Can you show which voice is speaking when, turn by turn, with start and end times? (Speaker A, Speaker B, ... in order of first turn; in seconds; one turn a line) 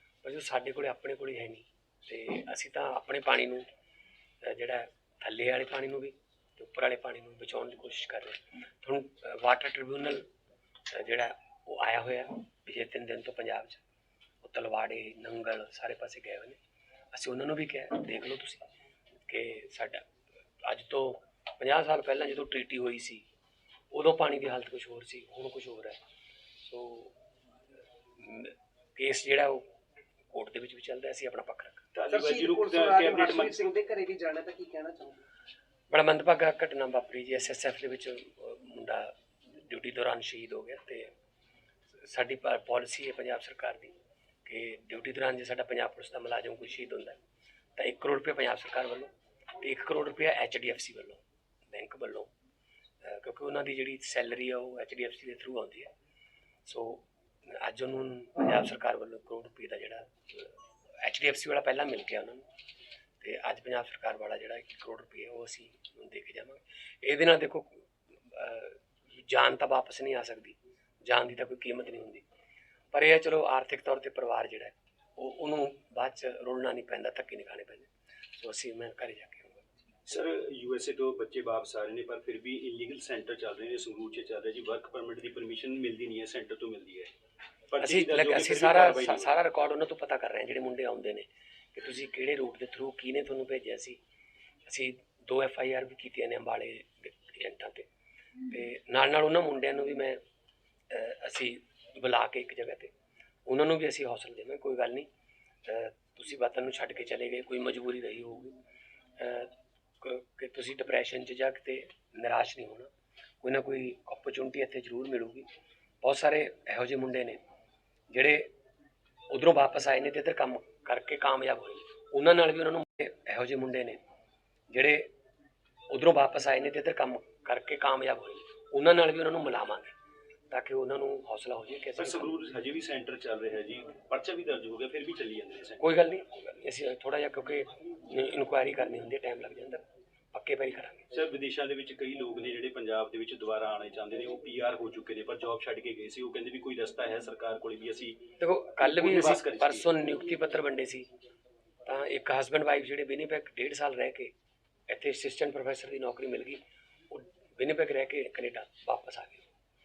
Speaker A: 0.2-3.7
Speaker A: 4.4-10.3
Speaker A: 10.9-13.8
Speaker A: 14.4-16.6
Speaker A: 17.1-18.6
Speaker A: 19.3-20.1
Speaker A: 20.6-23.2
Speaker A: 23.9-26.0
Speaker A: 26.6-27.1
Speaker A: 28.2-29.6
Speaker A: 30.3-31.9
Speaker B: 31.9-33.6
Speaker C: 32.1-35.2
Speaker A: 35.9-41.1
Speaker A: 41.9-43.9
Speaker A: 44.5-47.2
Speaker A: 47.8-52.3
Speaker A: 53.0-55.9
Speaker A: 56.7-62.5
Speaker A: 63.2-72.2
Speaker A: 72.9-79.7
Speaker B: 80.1-87.1
Speaker B: 87.7-89.4
Speaker A: 87.8-94.0
Speaker A: 94.7-97.9
Speaker A: 98.5-100.2
Speaker A: 100.9-102.9
Speaker A: 103.5-105.1
Speaker A: 105.7-108.5
Speaker A: 109.2-112.9
Speaker A: 113.4-115.5
Speaker A: 116.0-117.4
Speaker A: 118.1-118.5
Speaker A: 119.3-124.0
Speaker A: 124.7-125.1
Speaker A: 125.9-129.9
Speaker A: 130.5-132.3
Speaker B: 132.0-135.8
Speaker A: 135.8-141.1
Speaker B: 141.1-149.9
Speaker A: 148.4-151.1
Speaker A: 151.8-154.3
Speaker A: 154.9-159.5